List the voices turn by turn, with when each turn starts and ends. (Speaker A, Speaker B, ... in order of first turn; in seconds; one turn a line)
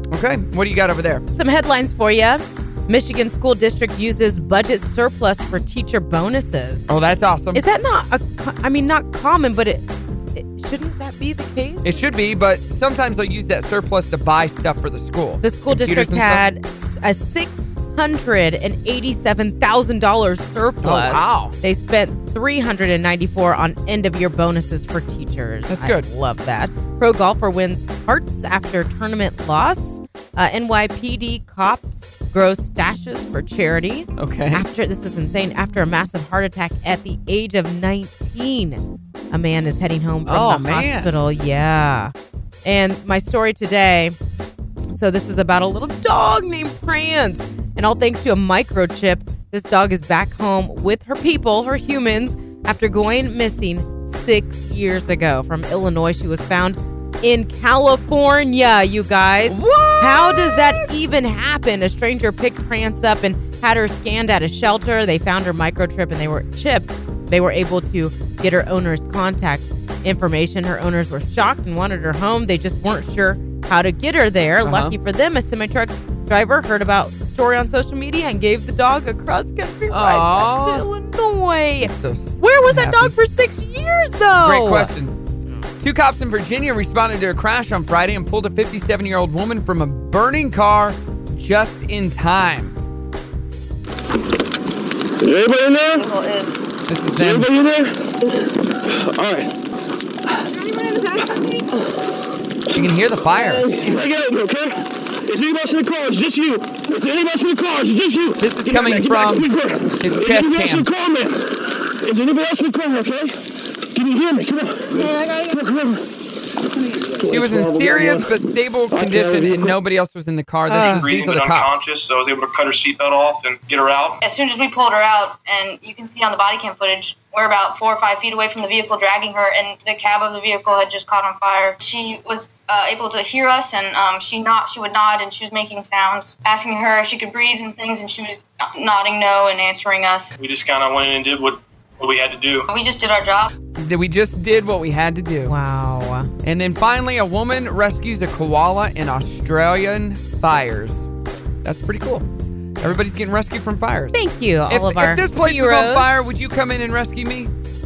Speaker A: 0.1-1.2
Speaker B: 1.3-6.9
Speaker A: 6.9-7.6
Speaker B: 7.5-11.9
Speaker A: 11.8-16.4
Speaker B: 15.4-42.1
Speaker A: 20.8-21.5
Speaker A: 25.7-26.1
Speaker A: 34.2-34.6
Speaker A: 40.2-41.1
Speaker B: 42.6-44.1
Speaker B: 44.9-84.9
Speaker A: 59.5-60.9
Speaker A: 74.6-75.0
Speaker A: 79.9-80.8
Speaker A: 81.9-83.1
Speaker A: 84.4-85.2
Speaker A: 85.8-92.8
Speaker C: 95.2-96.2
Speaker A: 96.9-97.5
Speaker C: 97.1-98.1
Speaker C: 98.8-99.5
Speaker A: 102.7-103.7
Speaker C: 103.4-113.4
Speaker A: 108.4-109.5
Speaker A: 110.0-110.9
Speaker C: 113.9-116.1
Speaker C: 116.8-118.4
Speaker A: 117.2-121.8
Speaker C: 118.9-119.8
Speaker B: 120.7-121.0
Speaker D: 120.8-124.2
Speaker E: 124.2-140.3
Speaker D: 140.4-142.7
Speaker E: 142.7-143.5
Speaker A: 143.8-145.5
Speaker B: 145.4-146.3
Speaker A: 146.4-151.1
Speaker A: 151.6-152.3
Speaker A: 152.8-154.1
Speaker B: 154.1-156.1
Speaker A: 154.7-157.5